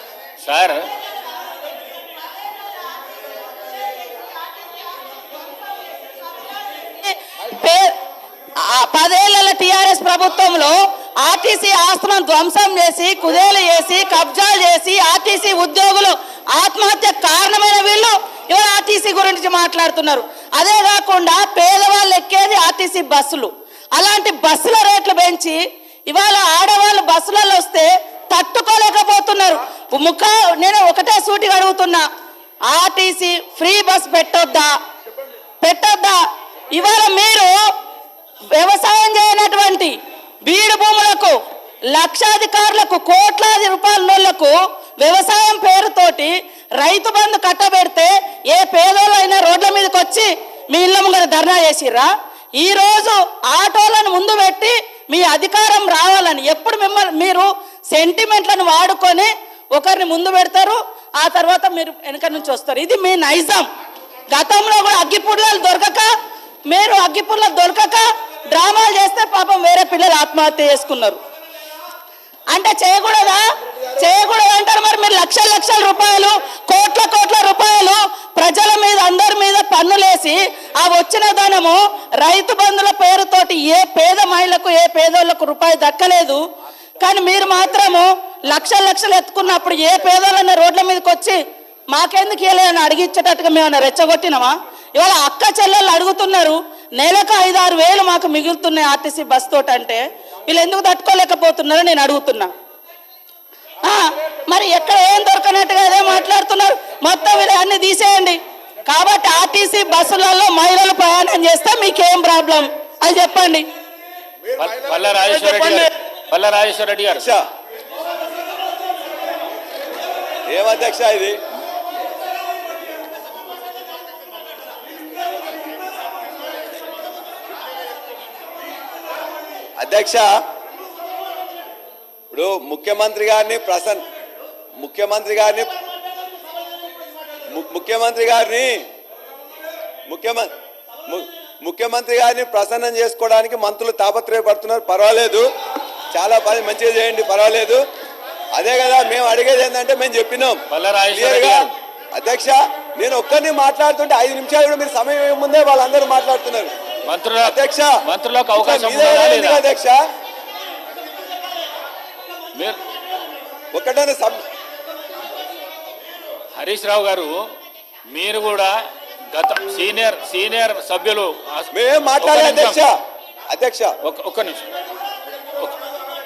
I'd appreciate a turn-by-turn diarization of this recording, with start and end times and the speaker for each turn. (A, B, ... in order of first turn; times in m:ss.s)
0:00.4-0:00.8 A
0:07.0-0:07.9 B
0:08.6-0:32.0 B
0:32.7-0:34.7 B
0:35.6-0:36.2 B
0:36.7-0:37.6 B
0:38.6-0:41.3 B
0:41.9-1:03.7 B
1:04.3-1:06.1 B
1:06.7-1:11.2 B
1:12.5-1:13.4 B
1:14.0-1:26.4 B
1:27.0-1:31.4 B
1:31.9-1:42.5 B
1:43.8-1:53.6 B
1:54.6-1:57.3 A
1:57.2-1:57.4 C
2:00.5-2:01.4 C
2:09.8-2:10.3 C
2:12.3-2:14.0 C
2:14.8-2:15.7 C
2:17.5-2:18.8 C
2:20.1-2:20.5 C
2:21.1-2:25.4 C
2:26.1-2:27.8 C
2:28.5-2:30.6 C
2:30.7-2:31.7 A
2:31.1-2:36.7 C
2:37.1-2:39.6 A
2:37.4-2:37.9 C
2:38.6-2:40.0 C
2:43.7-2:44.4 C
2:46.5-2:47.4 A
2:48.1-2:48.7 A
2:49.3-2:52.8 A
2:51.7-2:53.0 C
2:53.5-2:53.9 C
2:54.0-2:54.7 A